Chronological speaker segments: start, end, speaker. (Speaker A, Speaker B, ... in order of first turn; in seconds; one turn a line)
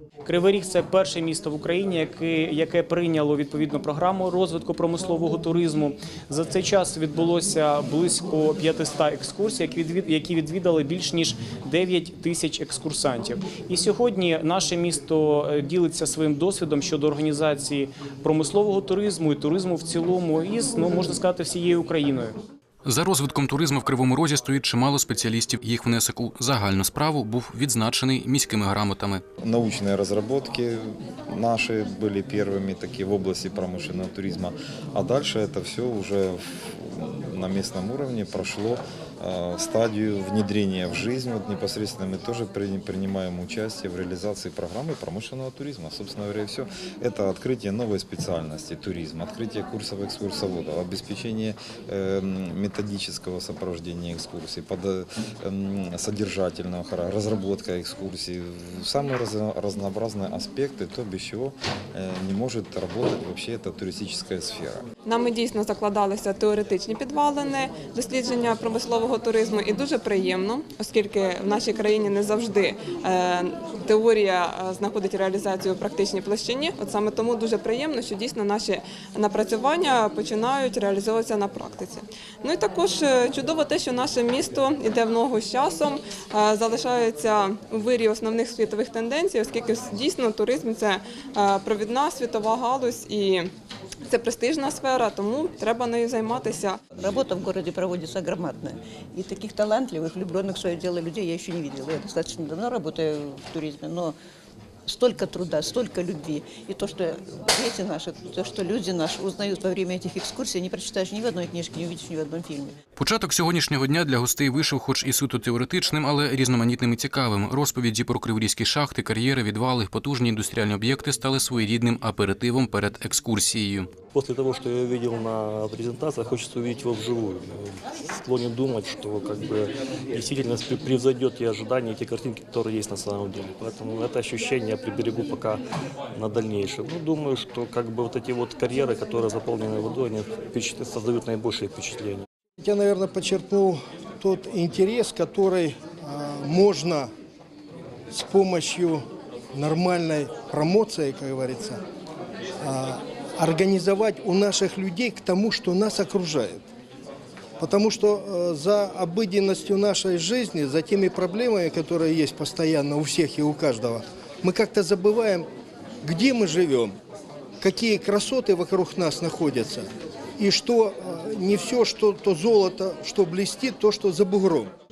Speaker A: 0.2-22.3
Speaker B: 22.9-29.2
Speaker C: 29.4-64.8
Speaker D: 65.0-93.5
Speaker D: 94.1-96.8
Speaker E: 97.0-104.2
Speaker E: 104.9-112.8
Speaker B: 113.0-123.9
Speaker F: 124.1-135.6
Speaker F: 136.1-142.2
Speaker G: 142.6-147.1
Speaker G: 148.1-149.0
Speaker G: 149.5-151.8
Speaker G: 152.6-156.6
Speaker G: 157.6-165.5
Speaker G: 166.0-166.9
Speaker G: 167.6-169.9
Speaker G: 170.4-174.7